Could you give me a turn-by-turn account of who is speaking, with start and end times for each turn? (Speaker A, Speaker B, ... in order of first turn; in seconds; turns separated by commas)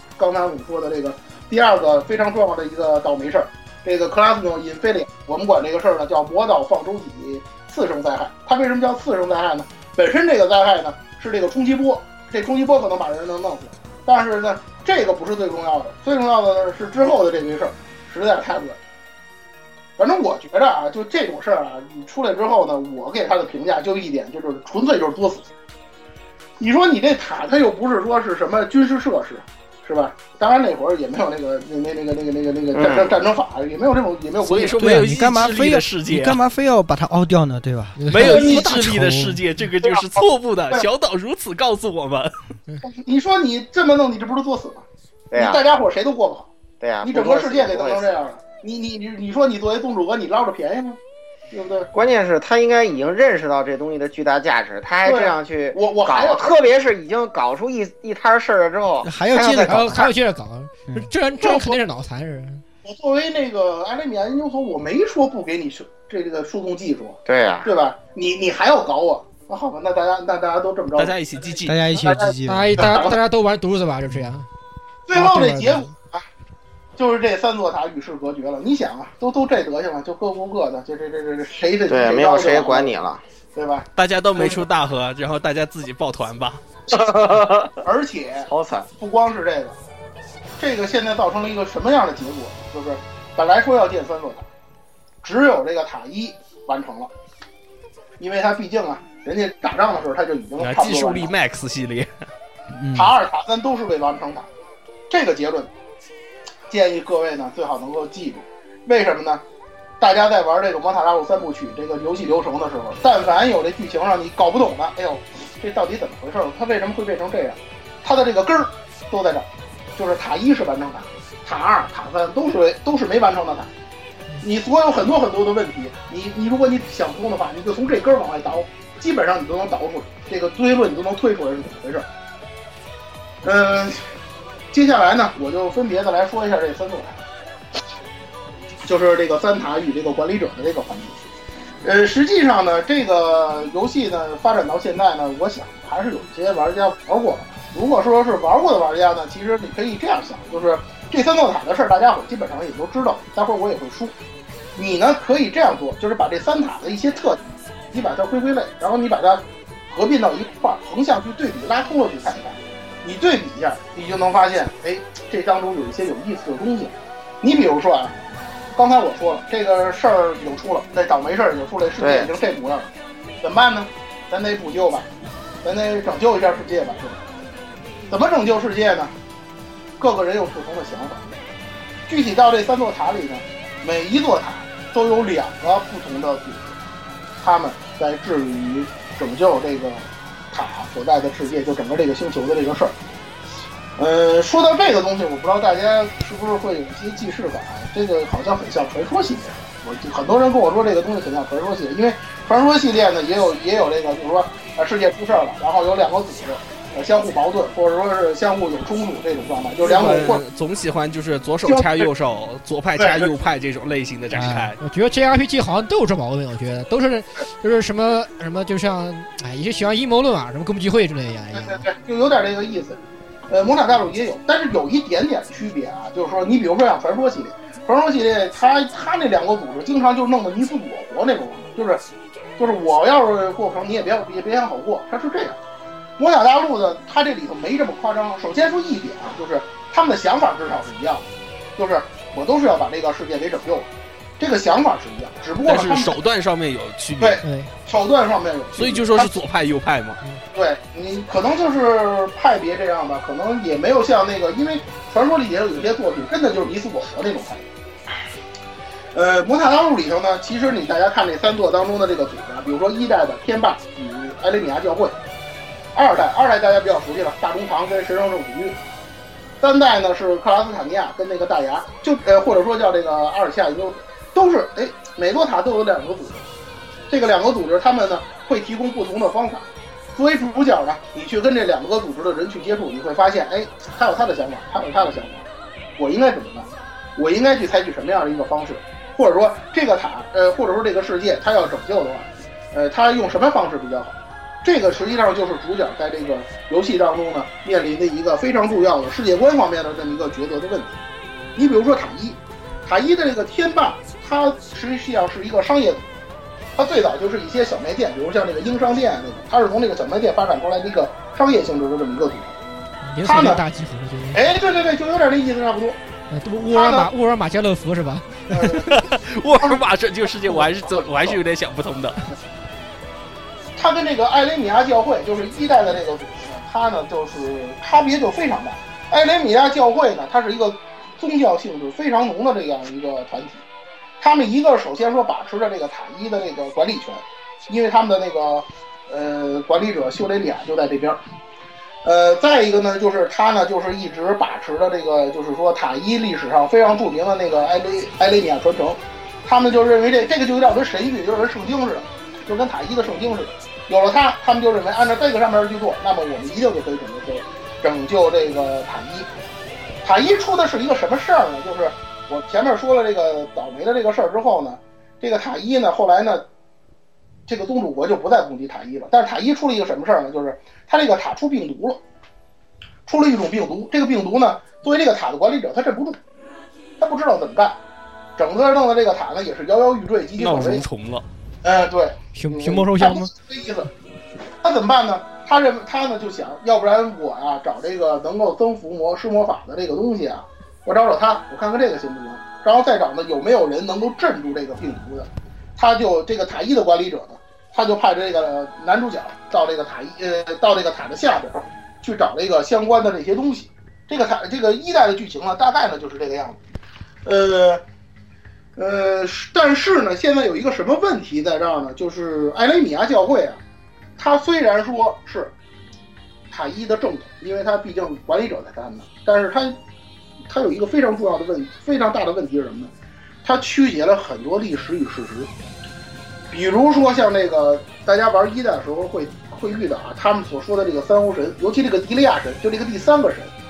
Speaker A: 0.2-18.8, Speaker A: 20.0-25.5, Speaker A: 26.6-34.8, Speaker B: 32.7-33.2, Speaker C: 34.4-36.4, Speaker D: 34.8-39.3, Speaker E: 38.0-39.3, Speaker C: 38.1-42.3, Speaker A: 38.2-38.6, Speaker A: 42.8-46.5, Speaker B: 45.3-45.6, Speaker B: 46.8-48.1, Speaker A: 47.0-51.0, Speaker A: 51.5-51.9, Speaker B: 51.9-60.1, Speaker A: 55.0-56.6, Speaker D: 59.0-60.1, Speaker E: 59.7-62.6, Speaker A: 61.4-61.8, Speaker A: 62.8-73.2, Speaker B: 67.2-67.7, Speaker C: 71.0-72.0, Speaker D: 71.6-73.0, Speaker E: 72.5-74.5, Speaker A: 75.1-76.2, Speaker E: 75.1-75.9, Speaker A: 77.0-82.9, Speaker B: 81.9-83.2, Speaker A: 83.5-84.6, Speaker C: 84.0-86.6, Speaker B: 86.9-87.8, Speaker A: 87.8-89.7, Speaker B: 88.5-88.9, Speaker A: 90.6-94.5, Speaker A: 95.2-97.1, Speaker A: 98.2-101.3, Speaker C: 100.6-102.1, Speaker D: 102.7-103.1, Speaker A: 102.9-104.5, Speaker A: 105.1-105.7, Speaker A: 106.7-109.4, Speaker A: 110.0-123.7, Speaker A: 124.4-132.1, Speaker A: 133.4-134.0, Speaker A: 134.7-137.2, Speaker A: 138.8-141.3, Speaker A: 141.8-154.1, Speaker A: 154.8-168.1, Speaker A: 168.7-172.9, Speaker B: 172.0-172.3, Speaker A: 173.4-175.1, Speaker A: 175.6-177.2, Speaker A: 178.1-179.1, Speaker A: 180.0-181.3, Speaker A: 182.1-186.8, Speaker A: 187.4-192.9, Speaker A: 194.0-210.4, Speaker C: 209.8-214.8, Speaker A: 211.6-212.1, Speaker A: 213.0-213.3, Speaker D: 214.3-214.7, Speaker E: 214.8-221.8, Speaker A: 221.5-232.0, Speaker A: 232.6-235.6, Speaker A: 236.2-243.9, Speaker A: 244.4-246.2, Speaker C: 245.6-247.4, Speaker A: 247.2-249.3, Speaker E: 247.4-247.7, Speaker C: 248.8-250.2, Speaker A: 250.5-257.6, Speaker A: 259.1-265.1, Speaker A: 265.9-268.8, Speaker A: 269.6-276.4, Speaker A: 277.1-285.4, Speaker A: 286.0-301.0, Speaker A: 301.6-306.1, Speaker A: 306.8-312.6, Speaker E: 313.1-314.4, Speaker A: 313.2-313.6, Speaker A: 314.3-316.0, Speaker E: 316.3-318.8, Speaker A: 316.6-317.1, Speaker A: 318.5-319.0, Speaker C: 318.8-322.2, Speaker A: 320.4-321.4, Speaker A: 323.8-333.6, Speaker A: 334.2-341.2, Speaker A: 342.0-359.3, Speaker A: 360.0-366.4, Speaker A: 367.5-372.0, Speaker A: 373.1-376.2, Speaker A: 377.0-377.8, Speaker A: 378.4-380.8, Speaker C: 380.4-381.2, Speaker A: 381.6-383.9, Speaker E: 382.3-383.3, Speaker A: 384.6-406.6, Speaker A: 407.2-407.8, Speaker A: 408.8-413.6, Speaker A: 414.2-415.5, Speaker A: 416.5-419.8, Speaker A: 420.5-422.9, Speaker A: 423.4-425.5, Speaker A: 426.5-433.5